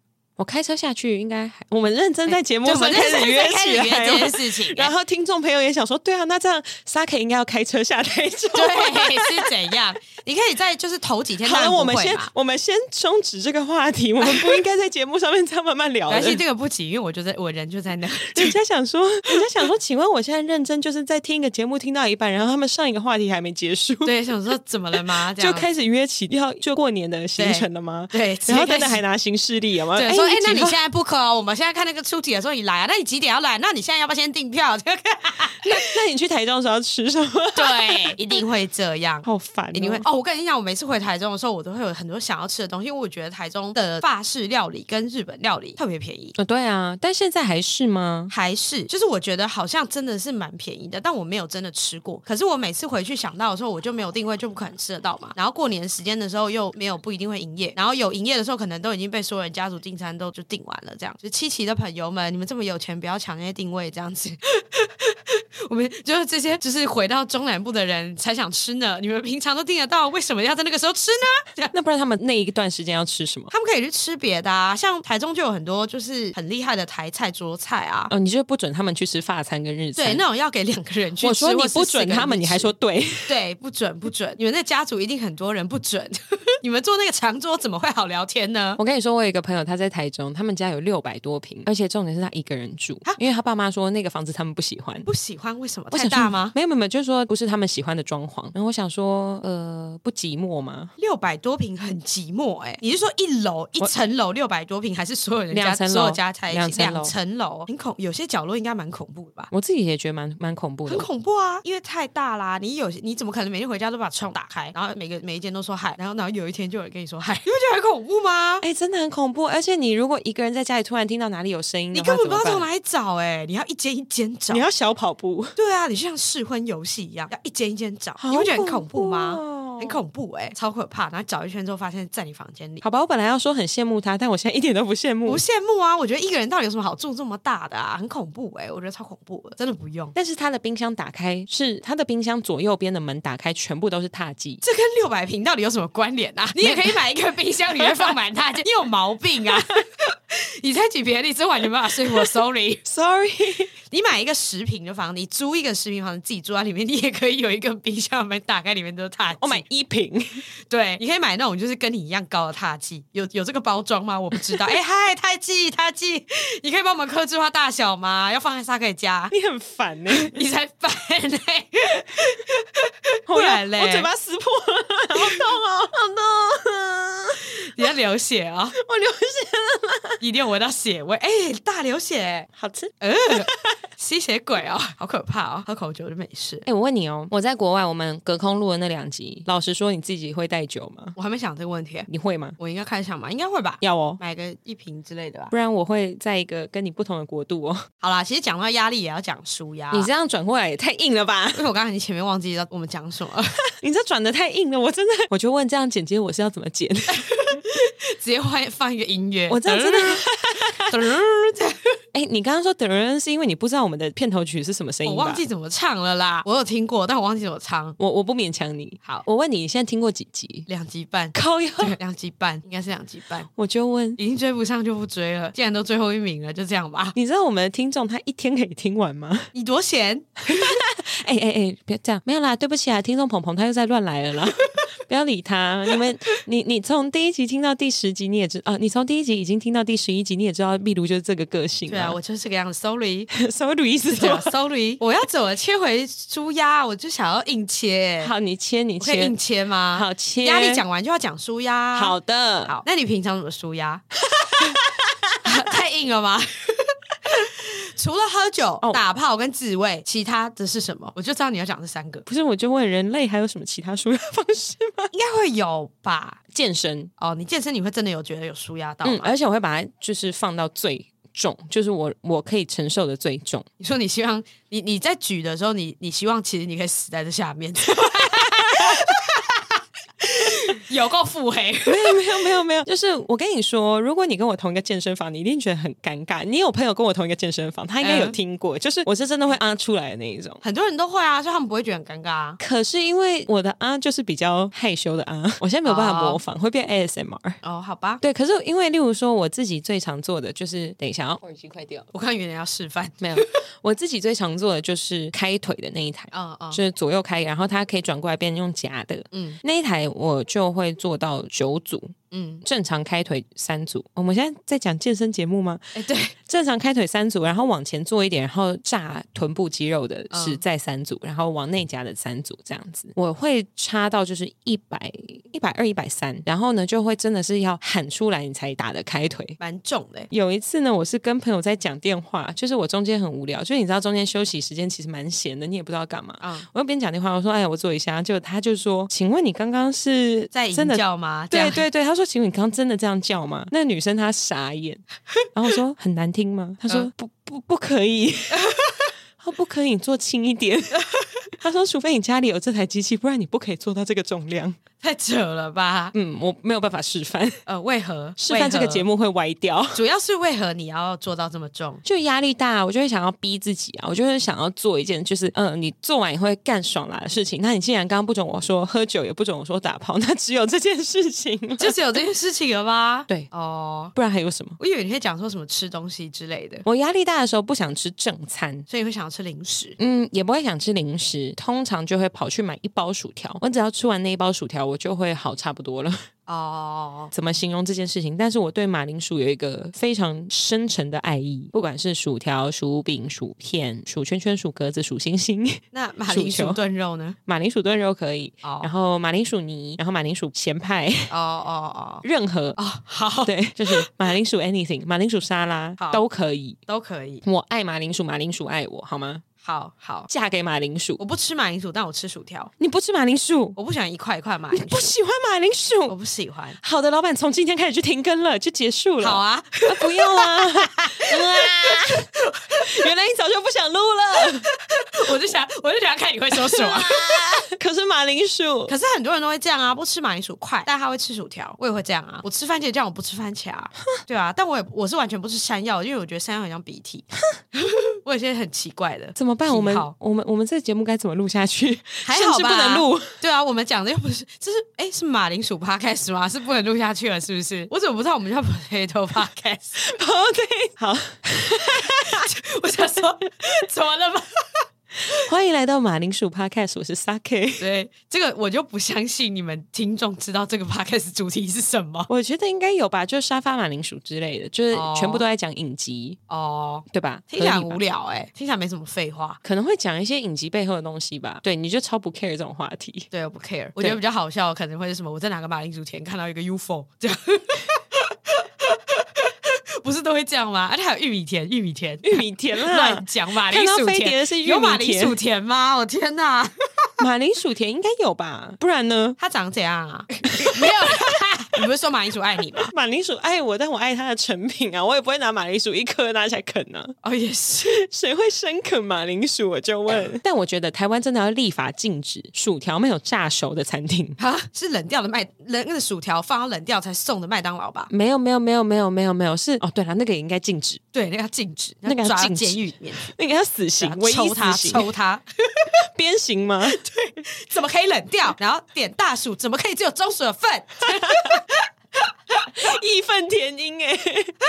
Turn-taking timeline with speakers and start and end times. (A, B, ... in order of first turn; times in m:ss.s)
0:00.4-0:09.8 A
0:02.3-0:04.9 B
0:08.5-0:12.3 B
0:11.4-0:16.4 A
0:14.2-0:14.5 B
0:16.1-0:18.6 B
0:18.2-0:24.1 A
0:24.0-0:25.7 B
0:24.9-0:30.8 A
0:27.4-0:29.0 B
0:30.0-0:35.8 B
0:35.6-0:38.2 A
0:37.5-0:46.3 B
0:39.2-0:40.0 A
0:46.4-0:48.3 A
0:48.3-1:11.7 B
1:11.7-1:13.5 A
1:13.5-1:18.1 B
1:18.1-1:20.2 A
1:20.0-1:22.7 B
1:21.2-1:23.3 A
1:23.3-1:28.8 B
1:28.8-1:35.1 A
1:35.0-1:36.5 B
1:35.9-1:40.9 A
1:41.0-1:49.5 B
1:45.5-1:47.1 A
1:49.5-1:51.1 A
1:50.9-1:58.6 B
1:58.6-2:02.6 A
2:01.9-2:04.6 B
2:04.5-2:05.5 A
2:05.6-2:12.8 B
2:08.2-2:10.0 A
2:12.8-2:15.4 A
2:15.2-2:20.1 B
2:20.1-2:24.6 A
2:24.6-2:32.8 B
2:26.6-2:27.0 A
2:27.8-2:28.1 A
2:32.8-2:33.7 A
2:33.9-2:39.6 B
2:39.4-2:40.4 A
2:40.7-2:49.3 B
2:49.3-2:50.4 A
2:50.1-2:54.1 B
2:53.3-2:57.9 A
2:57.7-2:58.8 B
2:58.8-3:00.2 A
3:00.2-3:02.5 B
3:02.6-3:03.8 A
3:03.0-3:06.6 B
3:06.6-3:11.1 A
3:11.2-3:15.5 B
3:12.1-3:12.6 A
3:13.8-3:14.2 A
3:15.5-3:17.8 A
3:18.0-3:20.1 B
3:19.9-3:21.6 A
3:21.5-3:23.6 B
3:23.8-3:27.2 A
3:27.1-3:32.0 B
3:29.5-3:31.0 A
3:32.1-3:35.4 A
3:35.0-3:38.0 B
3:38.0-3:40.7 A
3:40.7-3:43.5 B
3:41.3-3:42.0 A
3:43.6-3:44.2 A
3:44.2-3:47.2 B
3:47.1-3:49.5 A
3:49.5-3:50.8 B
3:50.5-4:02.2 A
4:01.9-4:03.3 B
4:03.3-4:04.5 A
4:04.2-4:08.3 B
4:08.2-4:09.3 A
4:09.0-4:14.8 B
4:09.9-4:10.8 A
4:11.9-4:12.8 A
4:14.4-4:15.5 A
4:15.4-4:22.2 B
4:22.2-4:25.1 A
4:25.1-4:26.4 B
4:26.5-4:27.1 A
4:27.2-4:29.3 B
4:29.0-4:33.7 A
4:33.8-4:42.4 B
4:38.7-4:39.0 A
4:41.9-4:50.6 A
4:48.0-4:48.4 B
4:50.6-4:52.6 B
4:52.6-4:57.6 A
4:55.8-4:56.4 B
4:57.6-4:58.2 B
4:58.2-5:02.1 A
5:02.1-5:03.5 B
5:03.2-5:29.6 A
5:06.3-5:06.8 B
5:09.3-5:09.6 B
5:12.3-5:12.6 B
5:15.9-5:16.3 B
5:20.3-5:20.6 B
5:29.6-5:30.3 B
5:30.3-5:45.0 A
5:36.4-5:36.7 B
5:40.5-5:41.8 B
5:45.5-5:48.7 A
5:48.5-5:49.1 B
5:49.4-5:51.0 A
5:50.9-5:51.4 B
5:51.6-5:54.8 A
5:55.0-5:56.1 B
5:56.1-5:57.6 A
5:57.6-5:59.0 B
5:58.4-6:00.0 A
5:59.9-6:02.0 B
6:02.0-6:12.0 A
6:11.8-6:14.1 B
6:14.1-6:14.8 A
6:14.8-6:16.8 B
6:16.8-6:18.9 A
6:18.9-6:20.0 B
6:20.0-6:26.2 A
6:26.5-6:27.3 B
6:27.3-6:36.8 A
6:35.9-6:37.4 B
6:37.4-6:41.3 A
6:38.6-6:38.9 B
6:41.3-6:42.2 B
6:42.2-6:42.8 A
6:42.8-6:44.1 B
6:43.4-6:46.8 A
6:46.0-6:46.2 B
6:46.9-6:47.4 B
6:47.4-6:49.4 A
6:49.6-6:50.3 B
6:50.3-6:51.2 A
6:51.2-6:52.7 B
6:52.8-6:53.8 A
6:53.8-6:55.1 B
6:54.7-6:56.2 A
6:56.1-6:56.8 B
6:56.8-7:04.7 A
6:59.2-7:03.0 B
7:04.6-7:07.4 B
7:06.5-7:08.9 A
7:08.9-7:20.1 B
7:19.4-7:23.3 A
7:22.2-7:30.0 B
7:30.0-7:32.5 A
7:31.7-7:34.8 B
7:35.3-7:37.8 A
7:37.8-7:42.3 B
7:42.3-7:46.4 A
7:44.9-7:45.4 B
7:46.5-7:49.6 B
7:47.1-7:48.0 A
7:49.6-7:53.3 A
7:53.3-8:06.7 B
8:02.2-8:05.4 A
8:07.2-8:09.4 A
8:09.4-8:12.9 B
8:10.5-8:11.4 A
8:12.8-8:17.2 A
8:17.2-8:18.0 B
8:17.8-8:24.4 A
8:24.4-8:28.1 B
8:28.1-8:31.0 A
8:31.1-8:33.3 B
8:32.0-8:35.1 A
8:34.0-8:35.9 B
8:36.0-8:37.0 A
8:36.9-8:41.8 B
8:41.1-8:41.6 A
8:42.7-8:44.5 A